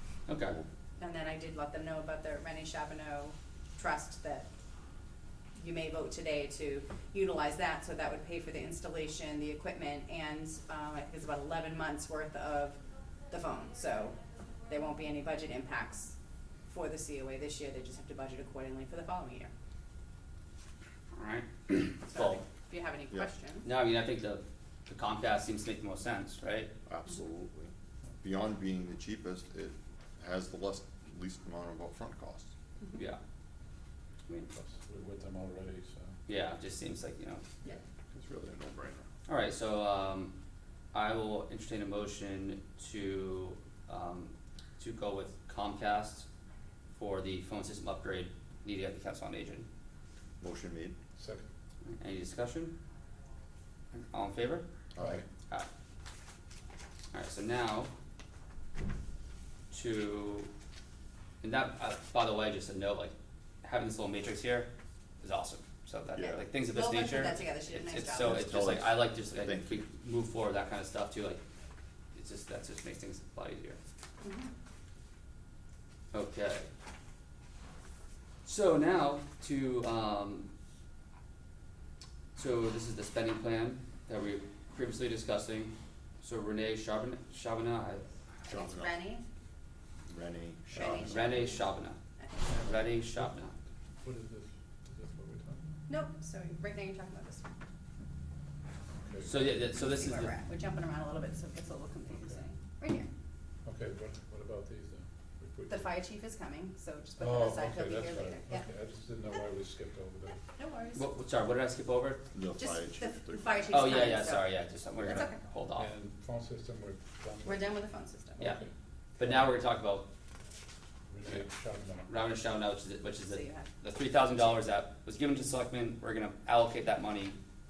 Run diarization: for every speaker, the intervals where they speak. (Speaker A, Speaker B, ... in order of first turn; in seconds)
Speaker A: 0.3-0.6, 21.1-22.4, 23.6-26.7, 36.3-37.4, 39.3-40.3, 40.9-46.3, 46.9-49.7, 51.9-52.7, 53.9-54.6, 57.1-57.9, 59.7-60.5, 61.4-64.7, 65.2-71.4, 72.1-73.8, 76.1-76.7, 78.4-80.5, 82.3-88.0, 90.9-92.0, 92.6-93.5, 99.2-100.3, 111.0-112.2, 113.7-115.9, 119.2-120.1, 122.1-127.4
Speaker B: 1.0-4.5, 5.6-16.2, 16.7-19.5, 22.1-23.7, 66.2-68.6, 74.2-74.5, 88.5-89.2, 90.7-91.6, 92.2-92.9, 95.9-97.5, 99.8-103.1, 105.7-108.7, 110.5-111.1, 112.6-115.4, 117.5-118.5, 123.2-123.7
Speaker C: 26.9-32.5, 38.1-39.1, 50.4-51.0, 54.9-55.2, 68.2-69.8, 88.5-88.9, 90.1-91.4, 112.3-113.8
Speaker D: 34.5-36.1, 51.2-51.5, 55.0-55.3, 94.0-95.8, 99.0-99.4, 103.7-105.9, 107.2-110.4, 115.8-117.8, 118.4-119.5, 121.1-122.1